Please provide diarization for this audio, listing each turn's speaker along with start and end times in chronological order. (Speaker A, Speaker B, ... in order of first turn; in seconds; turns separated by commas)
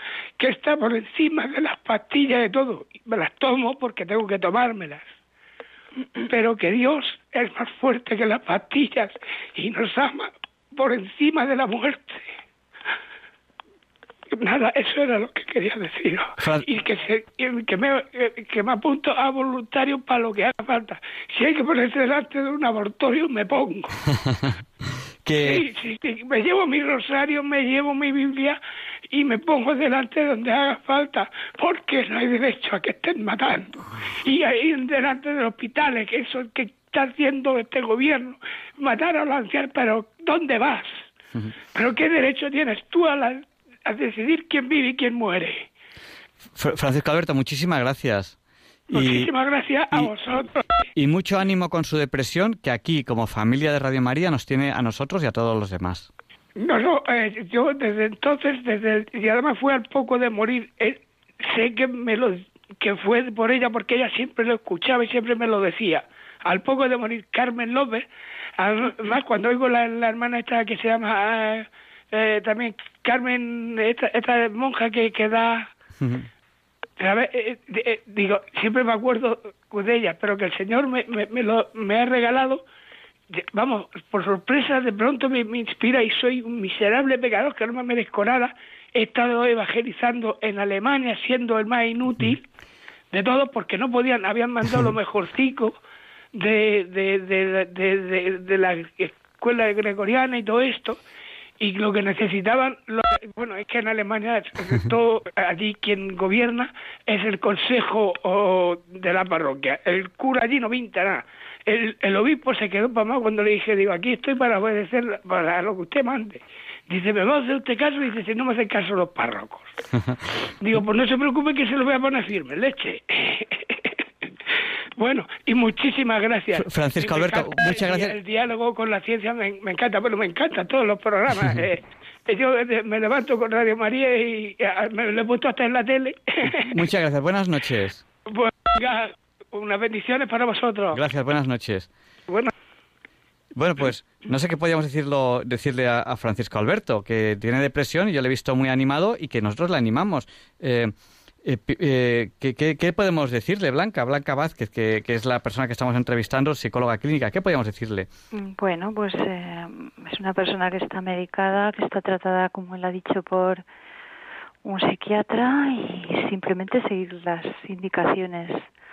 Speaker A: 0.4-5.0, Speaker A: 6.3-12.3, Speaker A: 14.3-24.0, Speaker B: 16.4-16.6, Speaker B: 25.2-25.6, Speaker A: 25.4-28.6, Speaker A: 29.1-41.0, Speaker A: 41.8-45.6, Speaker B: 46.5-48.4, Speaker A: 48.9-50.8, Speaker B: 48.9-49.3, Speaker B: 50.9-56.1, Speaker A: 56.6-68.0, Speaker A: 68.6-75.7, Speaker B: 76.0-76.3, Speaker A: 77.0-82.6, Speaker A: 83.3-92.4, Speaker A: 93.1-95.8, Speaker A: 96.3-101.0, Speaker A: 101.6-119.7, Speaker A: 120.6-123.9, Speaker A: 125.0-136.7, Speaker B: 126.6-128.1, Speaker B: 136.7-138.0, Speaker A: 138.3-141.0, Speaker B: 140.9-141.9, Speaker B: 143.6-150.9, Speaker B: 151.4-158.1, Speaker C: 158.3-163.6, Speaker C: 164.6-168.6